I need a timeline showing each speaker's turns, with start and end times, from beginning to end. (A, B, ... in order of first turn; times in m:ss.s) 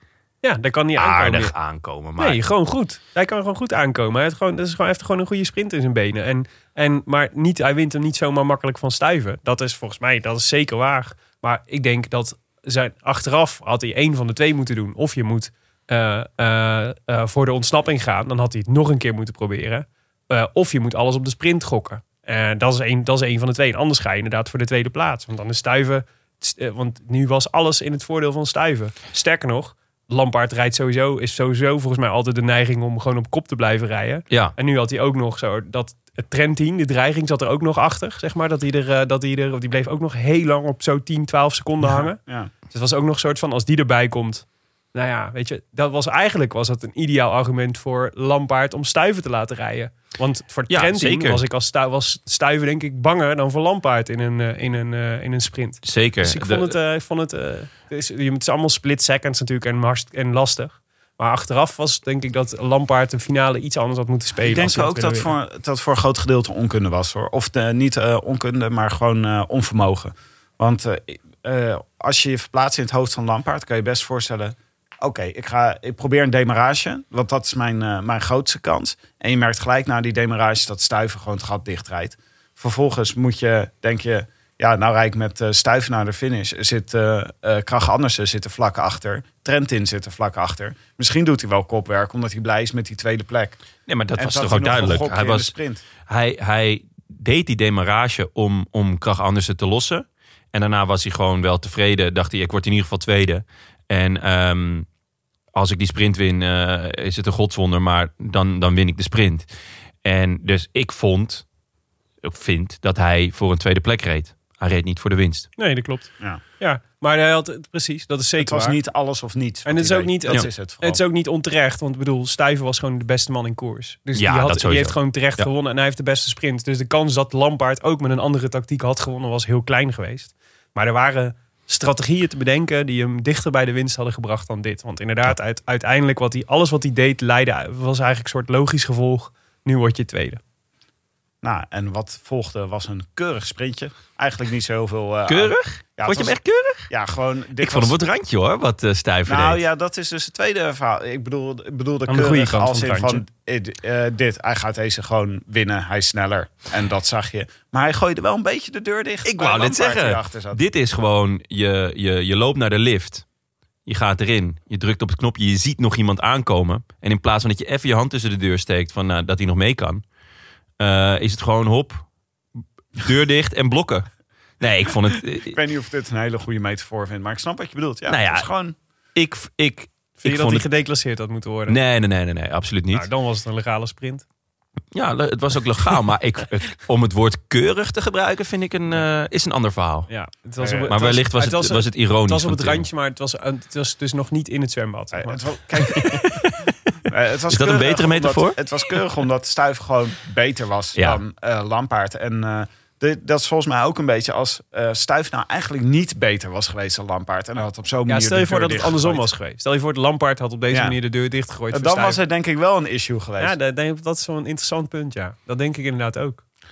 0:00.4-0:01.5 A
0:01.0-0:02.4 B
0:02.2-0:42.2 A
0:34.3-0:34.6 B
0:42.3-0:42.5 C
0:42.7-1:05.3 A
0:50.7-0:51.4 B
0:55.8-0:56.8 B
1:04.4-1:33.6 C
1:33.9-1:35.5 B
1:34.2-1:35.8 C
1:36.1-1:44.9 B
1:45.5-1:49.5 B
1:50.0-1:51.4 B
1:52.2-1:55.5 B
1:55.6-1:58.8 A
1:58.4-2:01.0 C
1:59.7-2:20.4 A
2:04.2-2:05.5 B
2:21.4-2:26.4 C
2:25.3-2:26.9 B
2:26.9-2:28.0 C
2:27.6-2:29.6 B
2:29.3-2:40.6 C
2:32.1-2:33.2 A
2:39.2-2:43.2 B
2:43.9-2:50.0 B
2:50.8-2:52.0 B
2:53.0-2:54.1 B
2:54.6-2:55.6 B
2:55.2-2:58.8 C
2:58.1-2:58.5 B
2:59.2-3:00.7 B
3:00.2-3:01.8 A
3:01.7-3:03.1 B
3:02.9-3:04.2 A
3:04.9-3:10.1 B
3:10.1-3:16.2 A
3:10.6-3:11.0 C
3:10.9-3:12.8 B
3:15.1-3:16.2 C
3:17.1-3:29.3 C
3:17.5-3:18.6 B
3:28.1-3:32.2 A
3:30.7-3:31.0 C
3:31.7-3:33.6 C
3:33.4-3:36.4 A